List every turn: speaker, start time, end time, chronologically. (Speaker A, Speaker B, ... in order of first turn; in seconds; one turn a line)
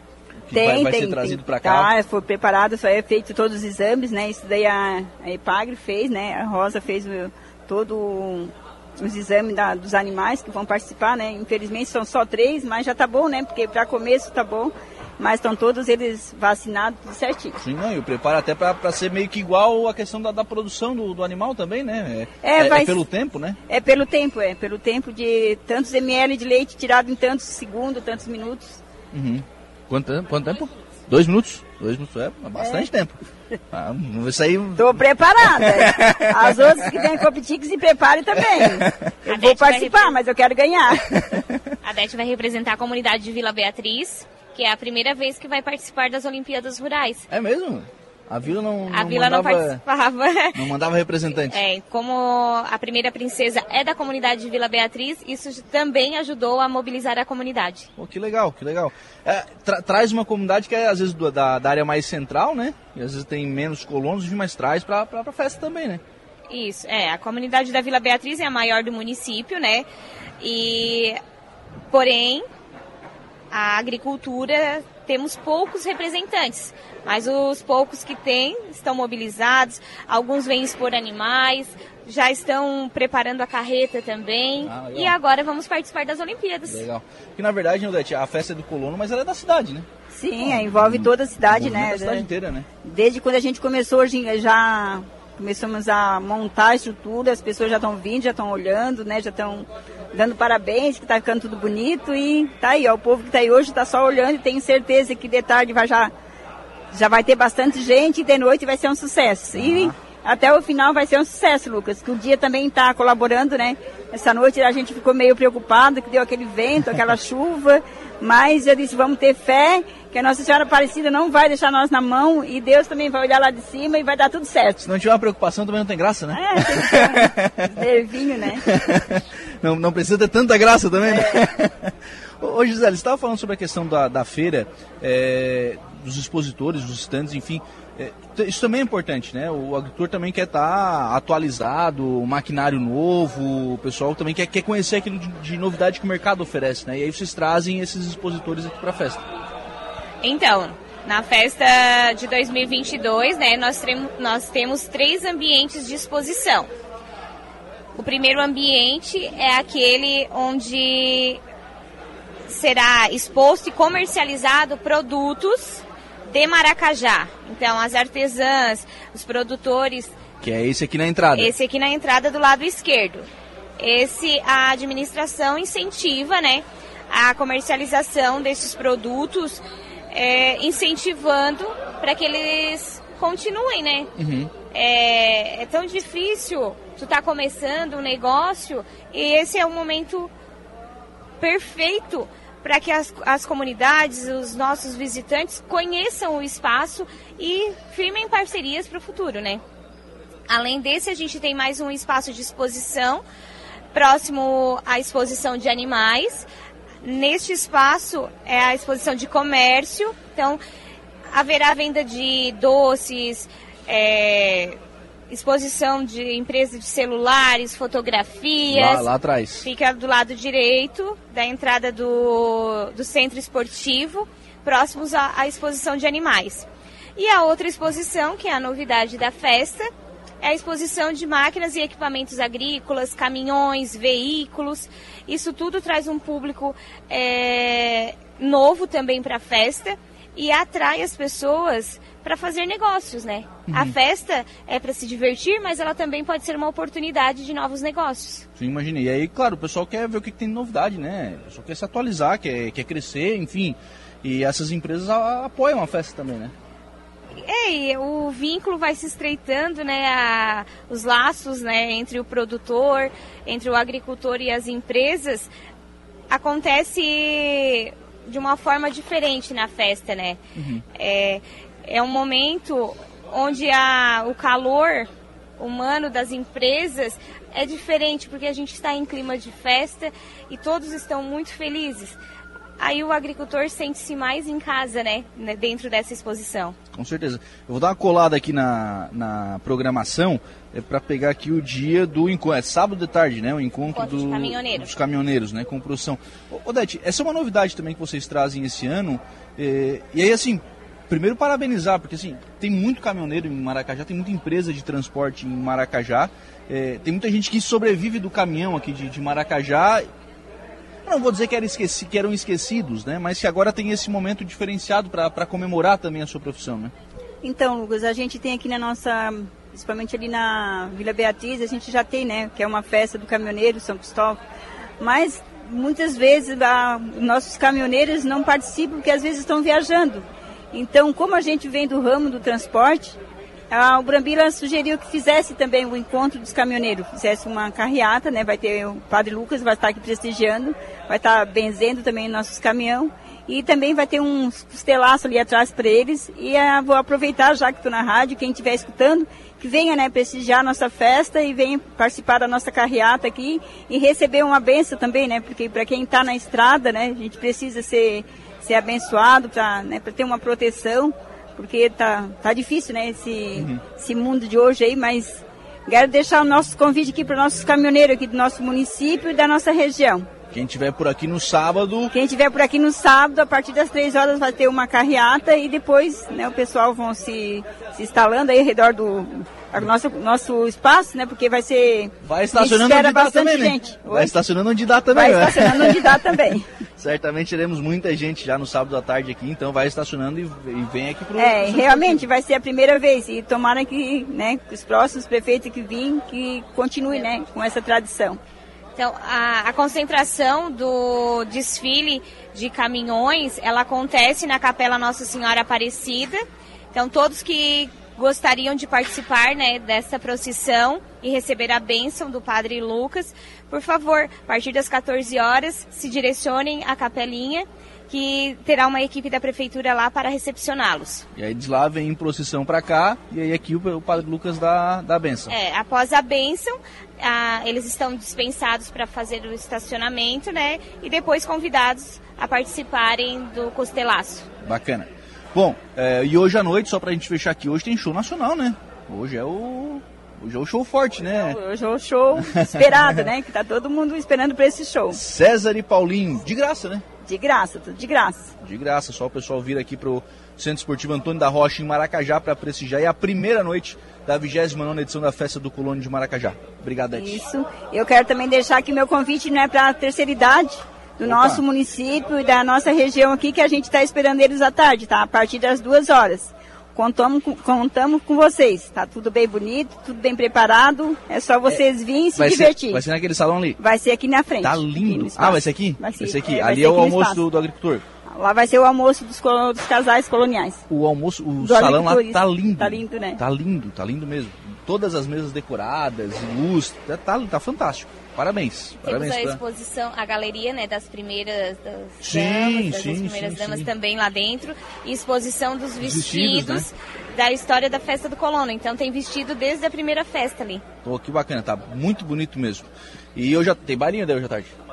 Speaker A: 0.5-1.9
Speaker B: 0.5-17.6
Speaker A: 17.6-23.6
Speaker B: 22.4-23.1
Speaker B: 23.7-28.8
Speaker A: 29.1-33.1
Speaker B: 32.6-32.9
Speaker A: 33.7-34.9
Speaker B: 34.8-41.2
Speaker A: 35.4-37.0
Speaker A: 38.4-39.1
Speaker C: 39.3-40.2
Speaker A: 41.1-41.7
Speaker C: 41.8-47.3
Speaker A: 47.3-49.8
Speaker C: 48.9-50.7
Speaker A: 50.5-51.6
Speaker C: 51.5-57.9
Speaker A: 58.0-66.0
Speaker C: 66.5-69.9
Speaker C: 70.4-71.2
Speaker C: 71.9-72.5
Speaker C: 73.5-86.8
Speaker A: 84.6-85.2
Speaker A: 86.7-89.9
Speaker B: 90.1-92.3
Speaker A: 90.4-92.7
Speaker B: 92.8-106.1
Speaker B: 106.9-124.8
Speaker A: 109.5-109.9
Speaker A: 124.8-127.7
Speaker B: 126.3-128.6
Speaker A: 128.6-149.2
Speaker B: 131.1-131.4
Speaker C: 150.2-156.7
Speaker C: 158.0-161.4
Speaker C: 162.5-170.2
Speaker A: 170.4-171.5
Speaker C: 171.4-173.3
Speaker C: 173.8-184.1
Speaker A: 184.2-184.5
Speaker C: 184.7-190.3
Speaker C: 191.4-199.6
Speaker C: 200.5-203.2
Speaker C: 203.9-206.5
Speaker C: 207.0-210.6
Speaker C: 211.3-214.8
Speaker C: 215.3-219.1
Speaker A: 218.7-219.7
Speaker C: 219.6-226.7
Speaker C: 227.2-229.9
Speaker C: 230.4-248.5
Speaker A: 243.7-243.9
Speaker A: 248.6-256.5
Speaker C: 257.4-265.5
Speaker C: 266.3-270.4
Speaker A: 270.6-270.8
Speaker C: 270.9-282.2
Speaker C: 282.8-286.8
Speaker A: 286.9-310.1
Speaker C: 293.9-294.9
Speaker A: 311.1-316.9
Speaker B: 317.4-324.4
Speaker B: 325.0-333.2
Speaker B: 333.7-370.3
Speaker A: 363.6-363.8
Speaker A: 370.5-372.1
Speaker B: 372.1-384.4
Speaker A: 382.2-386.2
Speaker B: 385.1-386.7
Speaker A: 387.0-392.3
Speaker B: 391.4-398.4
Speaker C: 399.0-406.4
Speaker C: 406.9-421.3
Speaker A: 421.4-425.5
Speaker C: 425.5-434.5
Speaker A: 434.6-441.6
Speaker B: 441.3-445.2
Speaker A: 442.4-443.3
Speaker A: 445.1-447.0
Speaker B: 447.2-448.5
Speaker A: 448.6-457.4
Speaker B: 457.1-473.1
Speaker A: 461.2-461.6
Speaker A: 472.4-473.8
Speaker B: 473.8-477.4
Speaker A: 474.6-478.0
Speaker B: 478.3-480.8
Speaker A: 480.9-489.6
Speaker B: 481.6-483.4
Speaker C: 489.0-500.8
Speaker A: 492.2-493.9
Speaker A: 496.0-496.9
Speaker A: 501.0-504.7